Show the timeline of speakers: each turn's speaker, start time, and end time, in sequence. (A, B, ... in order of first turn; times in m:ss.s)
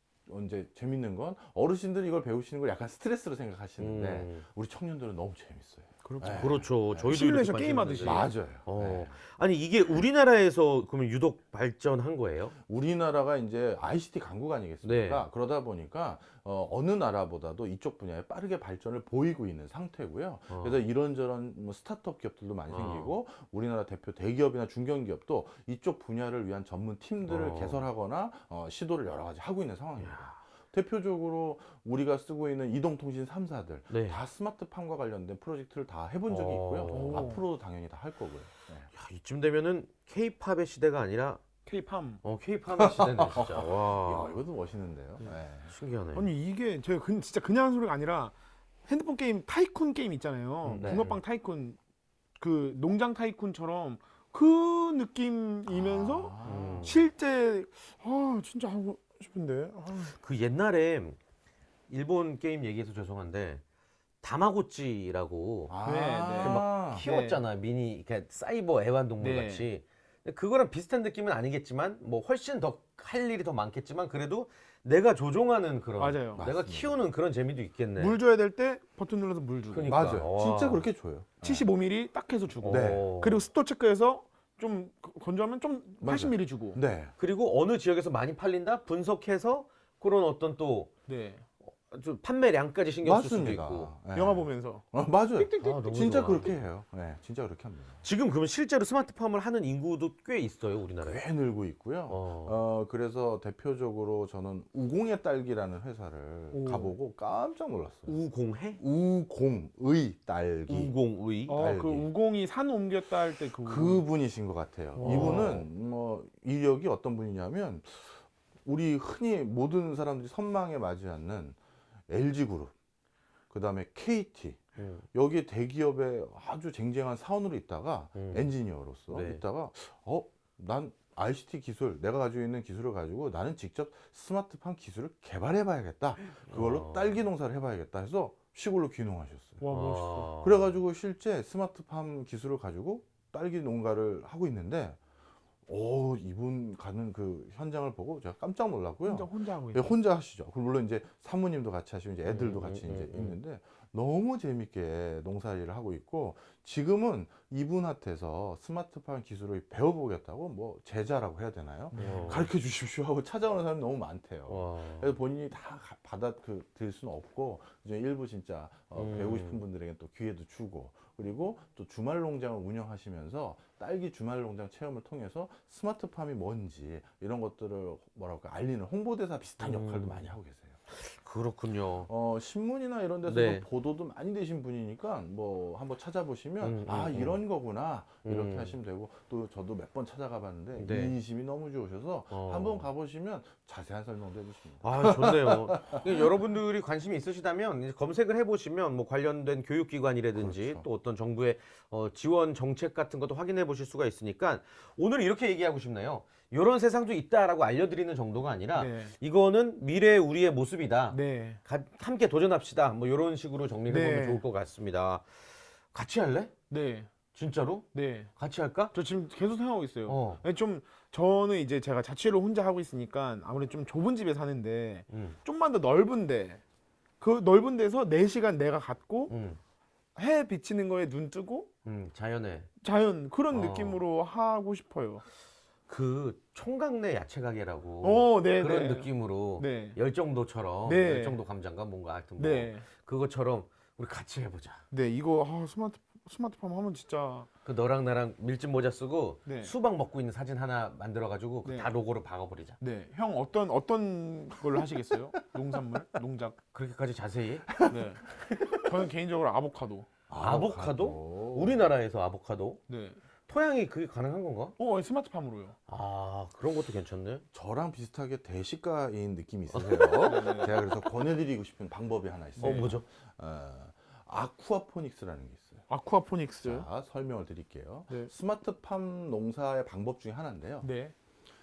0:00.2-0:07.1 A
0:03.8-0:04.4 B
0:06.0-0:08.3 C
0:06.3-0:12.5 B
0:08.0-0:09.1 A
0:12.6-0:38.9 A
0:14.8-0:15.2 B
0:20.5-0:20.8 B
0:22.7-0:23.1 B
0:27.3-0:27.8 B
0:30.0-0:30.3 B
0:33.9-0:34.2 B
0:36.3-0:37.4 B
0:36.9-0:37.4 C
0:39.0-0:41.4 B
0:41.6-0:42.2 C
0:42.2-0:44.4 B
0:42.7-0:45.7 A
0:45.7-0:46.3 B
0:46.1-0:48.3 C
0:48.9-0:51.8 C
0:50.6-0:51.2 B
0:50.8-0:51.2 A
0:52.4-1:00.1 C
0:55.7-0:56.9 A
0:56.4-0:57.1 B
1:00.1-1:01.2 B
1:01.9-1:03.6 B
1:04.2-1:05.7 B
1:05.7-1:07.0 A
1:05.8-1:07.4 C
1:06.4-1:18.2 B
1:09.2-1:09.7 C
1:16.0-1:16.4 C
1:16.4-1:17.0 A
1:18.0-1:20.0 C
1:19.7-1:20.8 B
1:19.8-1:21.7 A
1:21.4-1:26.8 C
1:22.6-1:23.4 B
1:22.7-1:23.1 A
1:26.0-1:27.1 A
1:27.2-1:30.9 B
1:31.1-1:31.4 C
1:31.6-1:33.9 B
1:33.0-1:38.0 A
1:34.1-1:34.8 C
1:35.4-1:36.5 C
1:35.5-1:36.6 B
1:38.0-1:41.2 B
1:41.0-1:48.2 A
1:42.1-1:42.6 B
1:46.5-1:46.9 C
1:48.0-1:48.8 B
1:48.8-1:50.9 A
1:50.7-1:51.6 B
1:51.5-1:54.0 C
1:51.5-1:52.1 A
1:53.6-2:01.6 A
1:55.0-1:55.6 C
1:55.0-1:55.6 B
2:02.1-2:02.7 A
2:03.5-2:19.6 A
2:04.8-2:05.0 B
2:08.2-2:08.5 B
2:09.1-2:09.4 B
2:16.5-2:17.1 B
2:19.6-2:20.3 C
2:19.7-2:20.7 B
2:20.4-2:25.0 A
2:25.7-3:00.8 A
2:29.0-2:30.0 C
2:32.3-2:33.4 B
2:41.9-2:42.5 C
2:41.9-2:42.5 B
2:44.5-2:45.1 B
2:48.9-2:49.6 B
2:59.6-3:00.3 B
3:00.9-3:02.1 B
3:02.1-3:16.4 A
3:03.2-3:03.6 B
3:06.6-3:07.4 B
3:08.2-3:08.7 B
3:10.8-3:11.2 B
3:12.3-3:12.9 B
3:14.8-3:35.4 B
3:20.3-3:20.8 A
3:28.7-3:29.1 C
3:31.1-3:31.6 C
3:33.9-3:34.4 C
3:35.9-3:36.5 B
3:36.7-3:37.1 C
3:37.3-3:38.9 B
3:37.9-3:38.3 C
3:38.9-3:46.6 C
3:40.0-3:40.4 B
3:45.1-3:45.4 B
3:47.2-3:49.3 C
3:49.3-3:49.6 B
3:50.2-3:51.7 C
3:51.8-3:52.7 B
3:52.8-3:55.2 C
3:53.5-3:54.0 B
3:55.9-4:04.8 B
3:58.0-4:00.0 C
4:00.8-4:01.4 C
4:02.4-4:02.8 C
4:04.9-4:07.5 C
4:07.6-4:12.8 B
4:09.4-4:09.7 C
4:11.6-4:11.9 C
4:12.8-4:16.6 C
4:16.7-4:17.7 B
4:17.8-4:18.6 A
4:17.8-4:20.1 C
4:20.3-4:21.9 A
4:20.4-4:22.8 B
4:22.9-4:23.2 C
4:23.5-4:24.8 B
4:24.8-4:25.8 C
4:25.9-4:27.4 B
4:27.5-4:35.8 A
4:29.7-4:30.8 B
4:30.2-4:30.7 C
4:32.6-4:32.9 C
4:32.6-4:33.0 B
4:35.9-4:36.9 C
4:36.6-4:40.9 A
4:40.8-4:41.1 C